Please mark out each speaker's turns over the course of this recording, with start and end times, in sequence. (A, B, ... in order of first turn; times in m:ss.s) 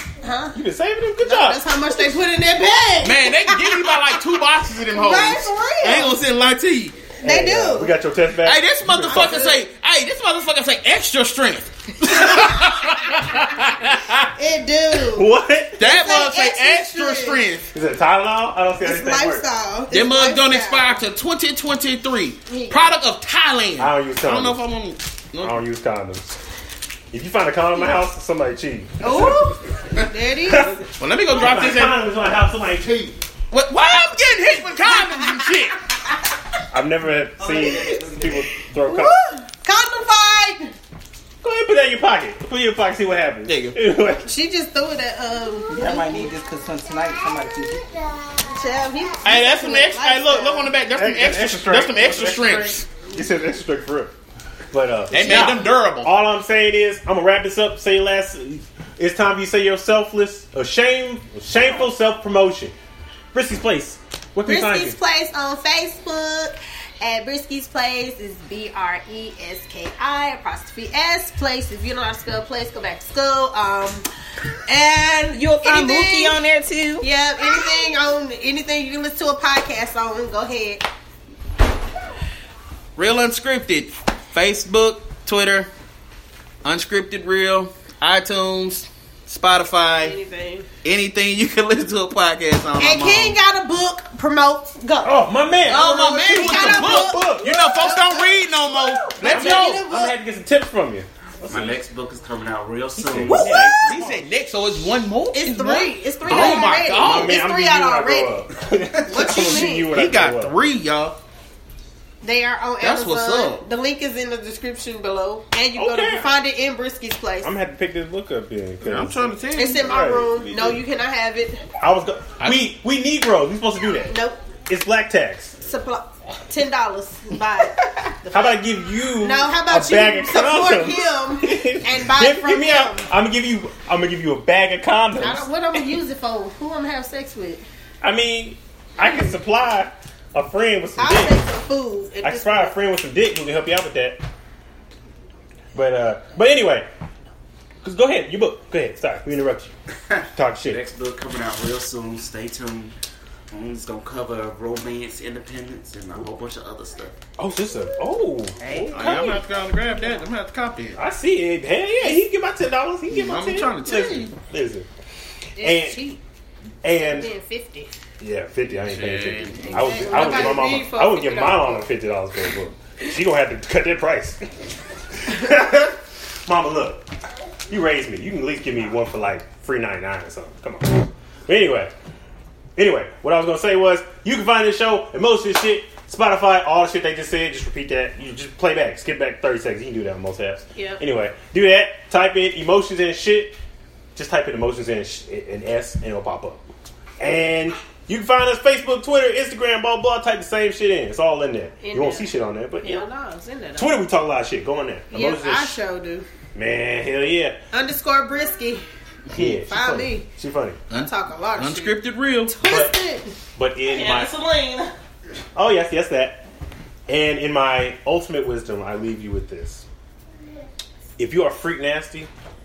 0:00.2-0:00.6 A
0:00.5-0:01.6 B
0:01.2-0:04.1 A
0:03.0-0:07.0 C
0:04.9-0:06.1 A
0:07.2-0:09.5 B
0:07.2-0:07.9 A
0:08.4-0:14.3 C
0:09.1-0:09.6 A
0:12.1-0:13.0 A
0:14.3-0:15.3 A
0:15.1-0:15.9 B
0:15.8-0:17.7 C
0:15.8-0:17.4 A
0:17.7-0:19.4 B
0:18.8-0:21.0 A
0:19.9-0:25.6 C
0:22.5-0:23.0 A
0:23.8-0:24.6 B
0:25.4-0:26.4 B
0:27.1-0:29.5 B
0:29.0-0:30.8 A
0:30.4-0:30.8 B
0:31.0-0:32.0 C
0:31.3-0:33.1 B
0:32.8-0:33.1 D
0:33.5-0:35.8 C
0:36.7-0:39.2 B
0:37.4-0:38.5 E
0:38.8-0:40.7 A
0:41.4-0:44.3 B
0:43.5-0:43.8 C
0:44.3-0:46.3 A
0:45.7-0:48.1 E
0:48.4-0:50.7 A
0:49.2-0:52.9 C
0:50.9-0:54.1 B
0:54.7-1:02.7 B
0:55.1-0:56.1 C
1:03.3-1:05.0 B
1:04.5-1:14.1 A
1:14.7-1:16.4 A
1:15.3-1:17.1 E
1:17.0-1:20.8 A
1:23.0-1:25.7 C
1:26.6-1:30.1 C
1:30.0-1:30.6 A
1:30.8-1:33.4 C
1:32.8-1:40.1 A
1:35.0-1:37.5 B
1:35.6-1:39.8 C
1:39.2-1:41.8 B
1:41.5-1:44.0 D
1:43.0-1:44.2 B
1:43.3-1:43.9 A
1:43.4-1:47.4 C
1:45.3-1:48.4 A
1:46.3-1:50.6 B
1:49.1-1:49.9 A
1:49.8-1:51.2 C
1:52.2-1:57.5 A
1:52.8-1:53.6 C
1:55.8-1:56.3 B
1:57.4-2:00.8 B
1:58.8-1:59.9 C
1:59.6-2:01.6 A
2:01.8-2:04.2 B
2:02.4-2:02.7 C
2:04.1-2:04.4 A
2:04.7-2:05.6 B
2:05.6-2:08.6 A
2:08.3-2:15.5 B
2:09.2-2:13.1 A
2:15.2-2:17.6 A
2:18.0-2:21.4 B
2:21.0-2:22.7 A
2:22.2-2:24.2 B
2:25.7-2:26.9 B
2:27.8-2:29.7 B
2:30.1-2:32.9 D
2:30.3-2:30.8 B
2:33.5-2:37.1 D
2:37.4-2:39.4 B
2:38.9-2:41.0 C
2:41.0-2:44.9 B
2:43.1-2:44.4 C
2:45.6-2:46.2 A
2:45.6-2:46.0 B
2:46.8-2:47.3 B
2:46.9-2:47.9 A
2:48.2-2:54.4 B
2:48.9-2:50.6 C
2:50.0-2:51.9 A
2:55.1-2:57.0 B
2:57.7-3:01.9 B
3:02.8-3:13.6 B
3:10.8-3:11.0 A
3:14.1-3:16.6 B
3:17.2-3:23.1 B
3:21.8-3:24.0 A
3:23.8-3:25.8 B
3:25.1-3:26.2 A
3:26.5-3:27.6 B
3:27.7-3:28.8 A
3:29.3-3:30.8 B
3:29.6-3:30.3 A
3:30.9-3:32.6 C
3:31.0-3:33.4 A
3:32.6-3:33.0 B
3:33.6-3:34.4 B
3:34.0-3:34.3 C
3:35.6-3:36.4 B
3:37.1-3:39.8 B
3:41.2-3:42.3 B